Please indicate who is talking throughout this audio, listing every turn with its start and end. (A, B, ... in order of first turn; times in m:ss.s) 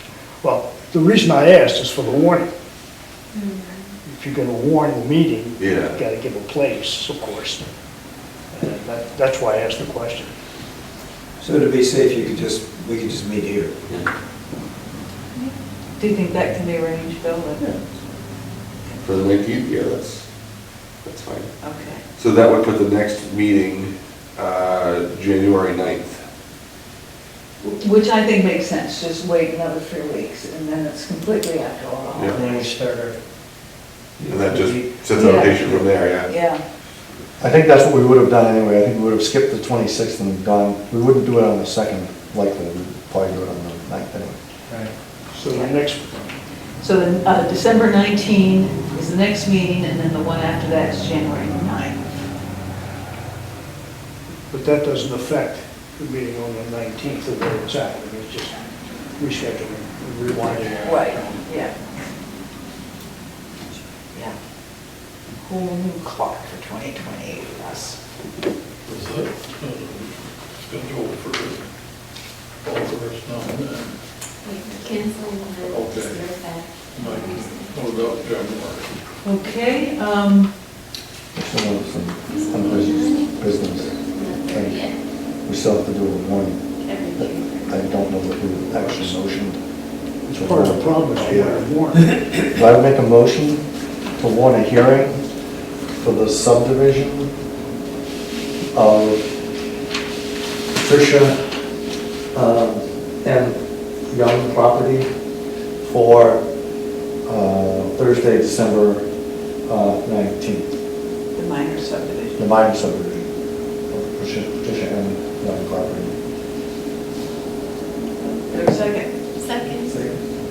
0:00.4-0:02.5 A
0:03.3-0:03.9 B
0:04.0-0:07.7 A
0:05.6-0:06.0 C
0:08.5-0:10.3 A
0:11.4-0:13.8 D
0:15.3-0:17.8 E
0:19.0-0:20.3 C
0:21.0-0:21.6 C
0:21.6-0:22.0 E
0:22.1-0:26.2 C
0:27.6-0:32.7 E
0:32.2-0:33.2 F
0:34.3-0:36.3 C
0:34.3-0:35.9 F
0:35.1-0:36.6 E
0:37.4-0:44.4 G
0:44.7-0:45.0 F
0:45.3-0:46.4 A
0:45.5-0:45.8 E
0:46.8-0:52.1 E
0:54.5-0:58.6 A
0:59.2-1:01.4 A
1:00.8-1:01.7 E
1:04.1-1:04.4 E
1:05.4-1:08.0 E
1:08.9-1:11.6 H
1:12.6-1:14.0 H
1:14.4-1:17.8 B
1:15.6-1:16.2 H
1:17.0-1:18.9 H
1:19.2-1:20.6 E
1:21.3-1:31.5 G
1:22.3-1:25.0 B
1:26.8-1:28.2 B
1:30.3-1:32.2 A
1:31.2-1:31.6 C
1:32.5-1:35.3 G
1:35.9-1:37.3 G
1:38.7-1:39.3 G
1:40.7-1:41.6 G
1:42.3-1:45.1 G
1:45.8-1:46.4 G
1:47.2-1:49.1 G
1:49.6-1:50.7 G
1:51.3-1:52.4 E
1:52.4-1:56.2 G
1:58.2-1:59.1 E
1:59.4-1:59.9 B